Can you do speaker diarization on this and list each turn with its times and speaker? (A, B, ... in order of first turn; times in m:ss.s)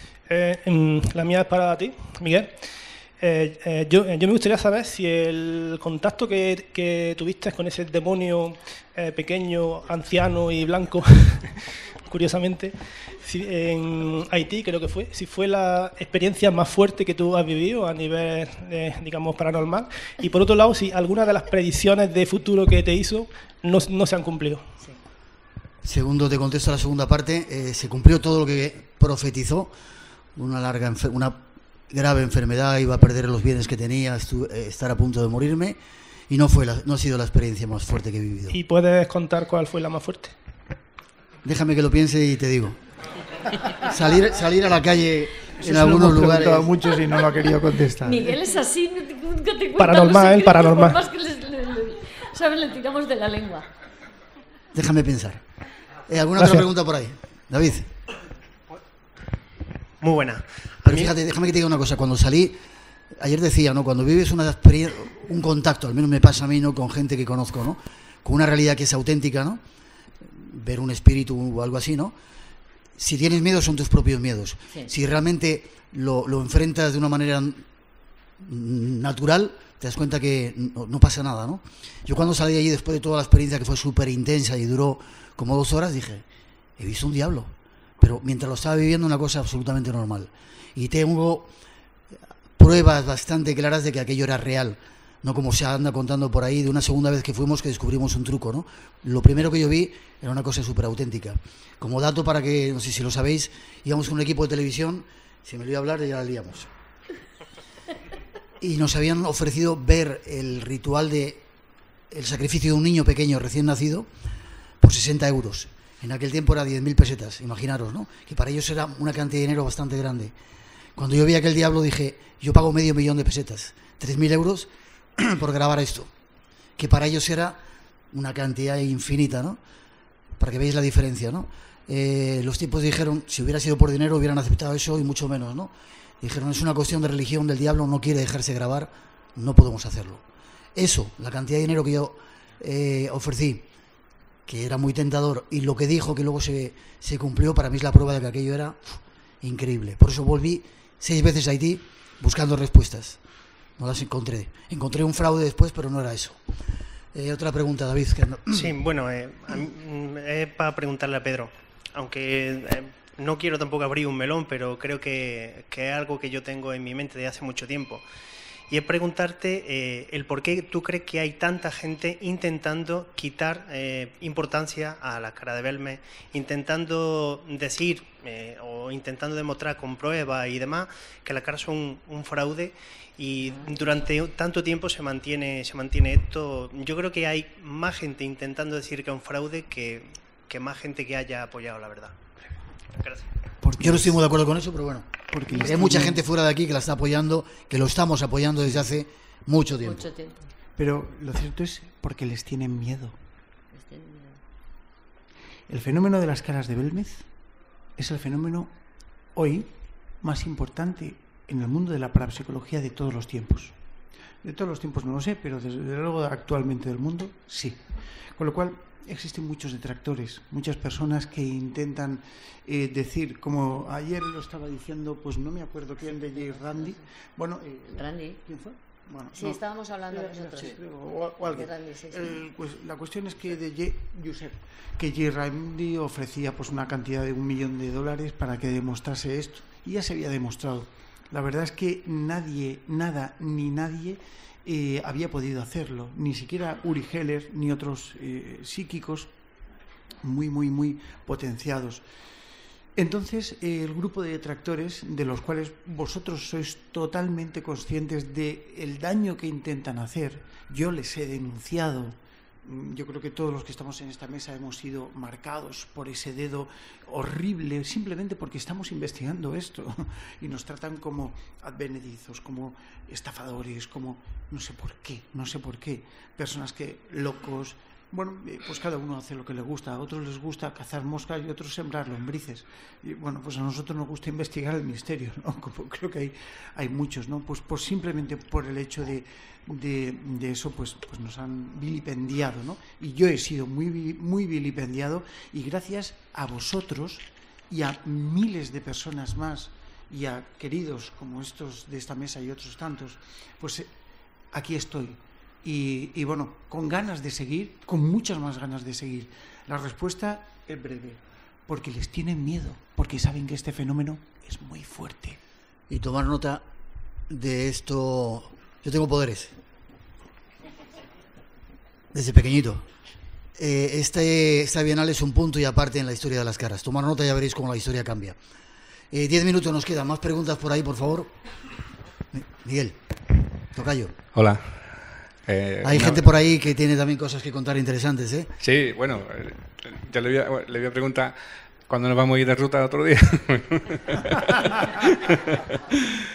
0:00.3-0:02.6 A
0:03.2-0:24.7 A
0:25.8-0:29.7 B
0:30.4-0:35.8 B
0:36.3-0:38.6 B
0:38.5-0:40.4 A
0:41.4-0:42.8 B
0:43.8-0:46.7 B
0:45.6-0:48.2 C
0:48.0-0:53.6 D
0:49.8-0:51.0 A
0:54.7-0:55.4 B
0:56.1-0:57.9 B
1:00.0-1:01.1 E
1:00.8-1:02.6 B
1:03.2-1:09.6 B
1:10.2-1:12.1 B
1:13.0-1:17.6 B
1:18.4-1:26.2 B
1:26.8-1:31.5 B
1:32.6-1:46.7 B
1:48.6-1:51.4 B
1:52.1-1:54.1 B
1:54.8-2:00.3 B
2:01.0-2:06.1 B
2:06.8-2:07.6 B
2:08.1-2:09.6 B
2:10.4-2:20.2 B
2:20.8-2:23.6 B
2:24.5-2:33.2 B
2:33.8-2:36.4 B
2:37.1-2:38.8 B
2:38.5-2:48.0 E
2:48.7-3:12.2 E
3:12.9-3:13.3 E
3:13.7-3:14.1 C
3:13.7-3:20.1 B
3:15.3-3:16.2 C
3:19.8-3:20.4 D
3:20.8-3:23.1 C
3:23.7-3:24.4 D
3:25.7-3:27.3 C
3:28.0-3:28.7 C
3:29.4-3:33.8 C
3:34.4-3:37.8 C
3:38.4-4:09.3 C
3:46.1-3:47.0 D
3:47.9-3:48.4 D
3:49.3-3:50.8 D
3:51.5-3:52.4 D
4:10.2-4:12.0 C
4:13.0-5:03.9 C
5:04.5-5:15.4 C
5:15.9-5:16.6 B
5:17.3-5:19.5 B
5:22.1-5:22.9 B
5:23.6-5:28.4 B
5:29.1-5:31.3 B
5:32.3-5:33.0 B
5:33.7-5:34.1 B
5:34.4-5:36.3 F
5:35.8-5:38.5 B
5:38.6-5:41.4 F
5:41.9-5:46.0 F